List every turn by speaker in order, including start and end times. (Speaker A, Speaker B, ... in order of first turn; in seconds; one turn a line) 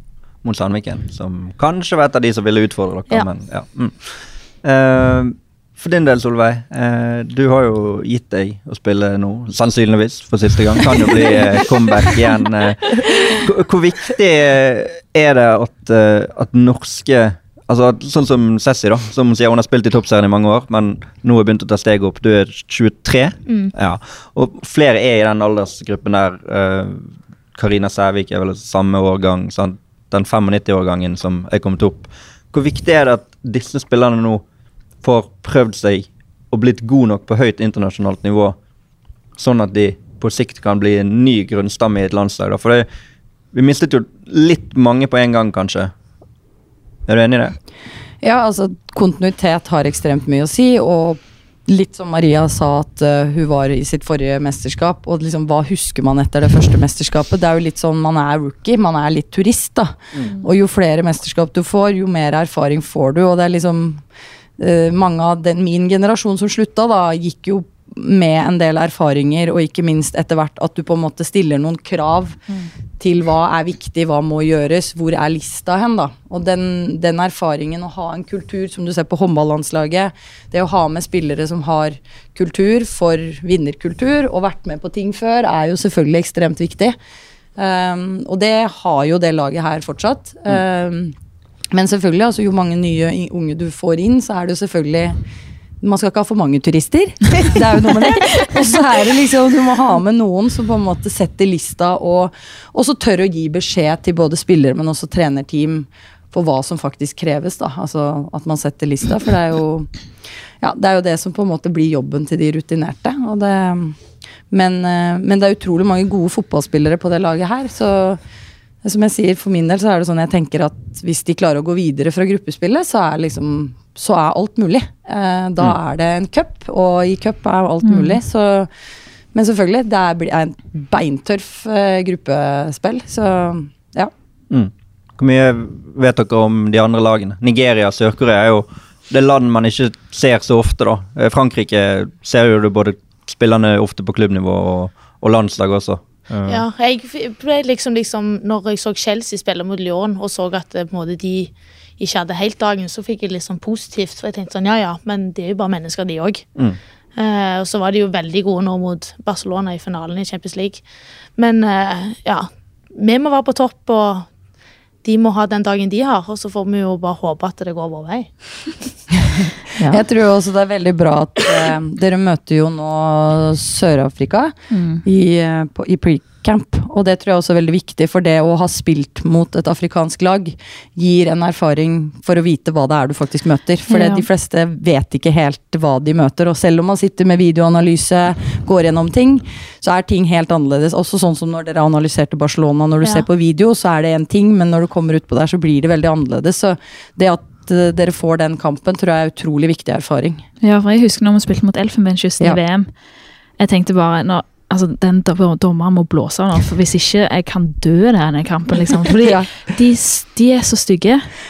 Speaker A: 0.4-34.4
Speaker B: 23.5-23.7
Speaker A: 35.0-38.5
Speaker A: 39.4-42.9
Speaker A: 43.5-45.9
Speaker A: 47.1-47.5
Speaker C: 48.2-64.0
Speaker C: 64.6-72.4
Speaker C: 73.0-86.9
Speaker C: 87.5-91.1
Speaker C: 91.7-95.2
Speaker C: 95.8-109.9
Speaker C: 110.6-114.0
Speaker C: 114.5-118.2
Speaker C: 118.8-128.7
Speaker D: 127.8-128.2
Speaker C: 129.3-134.1
Speaker A: 134.5-146.6
Speaker B: 146.5-156.4
Speaker B: 157.2-160.8
Speaker B: 161.3-164.3
Speaker B: 165.0-168.7
Speaker D: 169.8-170.0
Speaker C: 169.8-200.4
Speaker D: 174.7-175.0
Speaker D: 183.9-184.3
Speaker D: 200.6-202.9
Speaker D: 203.6-211.3
Speaker C: 209.2-209.5